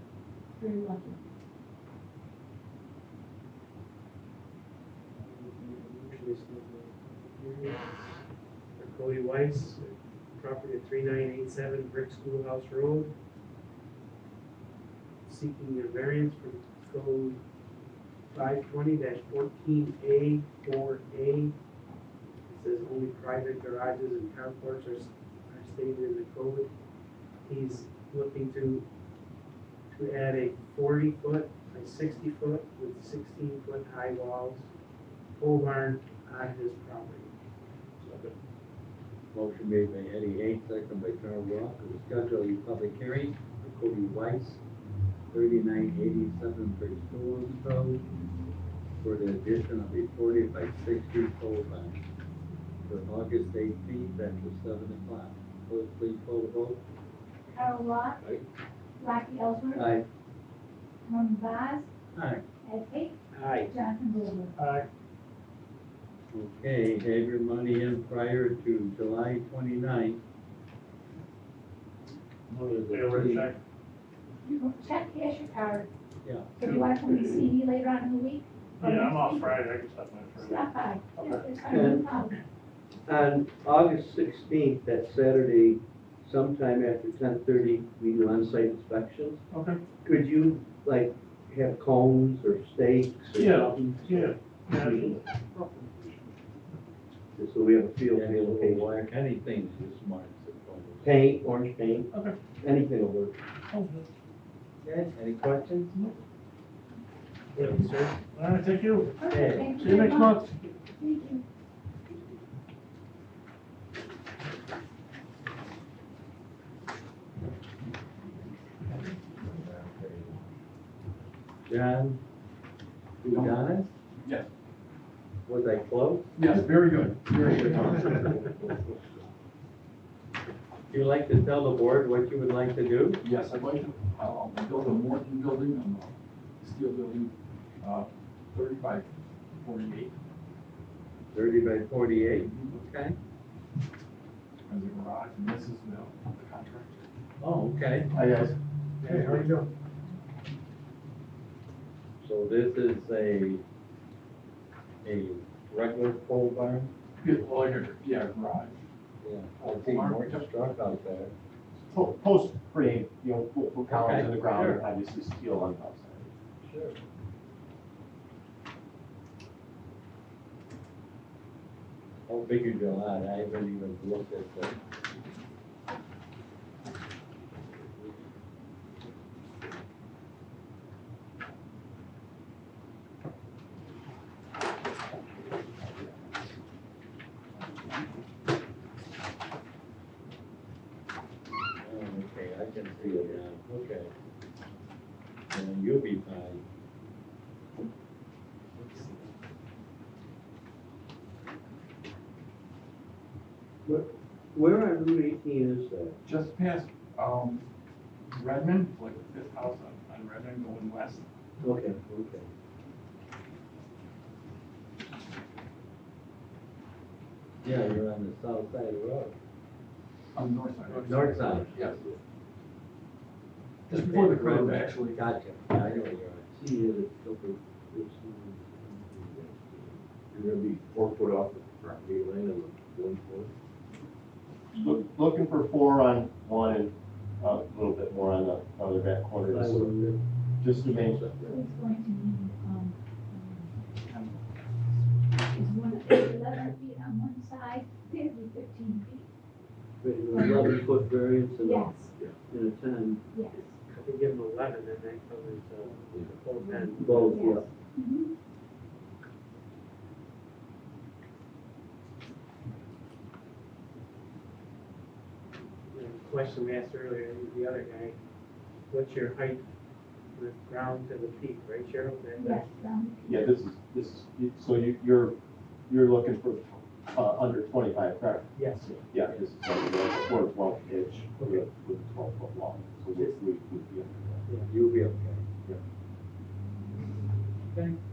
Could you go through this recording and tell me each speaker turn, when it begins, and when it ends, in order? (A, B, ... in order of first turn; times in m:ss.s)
0:00.5-0:01.2 A
0:05.2-0:08.2 B
0:08.8-0:13.1 B
0:15.3-0:17.4 B
0:18.3-0:21.6 B
0:22.5-0:26.7 B
0:27.4-0:28.9 B
0:29.9-0:34.7 B
0:35.4-0:37.3 B
0:38.0-0:38.3 C
0:39.3-0:44.6 D
0:45.3-0:48.0 D
0:49.0-0:52.0 D
0:52.9-0:56.8 D
0:57.5-0:58.2 A
0:59.0-1:00.0 A
0:59.7-1:00.0 D
1:01.0-1:01.9 A
1:02.1-1:02.4 D
1:02.6-1:04.5 A
1:03.3-1:03.7 B
1:04.6-1:04.9 C
1:06.3-1:10.2 D
1:12.6-1:13.4 D
1:12.9-1:13.6 C
1:14.4-1:15.9 A
1:16.2-1:16.6 D
1:16.6-1:19.7 A
1:16.6-1:17.5 C
1:18.8-1:21.8 C
1:20.4-1:22.4 A
1:21.7-1:22.1 E
1:23.1-1:29.4 E
1:29.5-1:29.8 C
1:30.0-1:35.2 E
1:33.3-1:36.4 C
1:37.4-1:38.9 E
1:38.1-1:41.2 D
1:41.0-1:43.4 E
1:42.1-1:42.4 C
1:43.7-1:44.1 C
1:44.8-1:46.0 D
1:47.5-1:48.2 B
1:48.3-1:50.5 C
1:49.2-1:51.4 A
1:49.3-1:49.8 D
1:59.6-2:00.4 F
2:01.7-2:02.2 D
2:03.2-2:03.9 D
2:03.3-2:03.6 G
2:05.4-2:06.3 D
2:06.4-2:08.2 G
2:10.9-2:13.2 D
2:13.2-2:19.1 G
2:19.6-2:20.1 G
2:21.3-2:23.2 D
2:24.7-2:27.0 G
2:27.4-2:28.1 D
2:28.1-2:29.6 H
2:29.2-2:29.5 C
2:32.2-2:33.6 D
2:35.0-2:36.9 D
2:37.2-2:38.8 G
2:39.2-2:41.3 D
2:39.6-2:40.5 G
2:41.9-2:46.3 H
2:43.9-2:44.8 D
2:46.7-2:47.0 D
2:52.3-2:54.8 D
3:11.8-3:14.1 D
3:15.5-3:16.6 D
3:23.8-3:26.2 E
3:26.3-3:27.6 G
3:28.4-3:31.2 G
3:31.6-3:32.5 E
3:37.6-3:39.4 D
3:40.4-3:42.0 G
3:41.0-3:41.8 D
3:41.1-3:41.6 B
3:43.9-3:45.2 G
3:43.9-3:46.5 D
3:46.5-3:50.0 E
3:50.4-3:53.5 F
3:54.7-4:00.0 H
3:59.4-4:00.2 E
4:00.6-4:01.4 H
4:01.5-4:03.8 A
4:05.5-4:09.3 A
4:10.0-4:13.2 E
4:10.3-4:10.8 A
4:11.6-4:12.1 A
4:13.3-4:13.7 A
4:13.6-4:17.6 B
4:16.6-4:18.3 A
4:17.0-4:17.7 E
4:25.9-4:28.2 B
4:28.9-4:29.6 B
4:30.4-4:32.6 B
4:32.4-4:33.5 A
4:33.2-4:35.4 H
4:35.9-4:44.4 H
4:38.6-4:39.0 B
4:44.7-4:45.4 D
4:47.7-4:48.0 D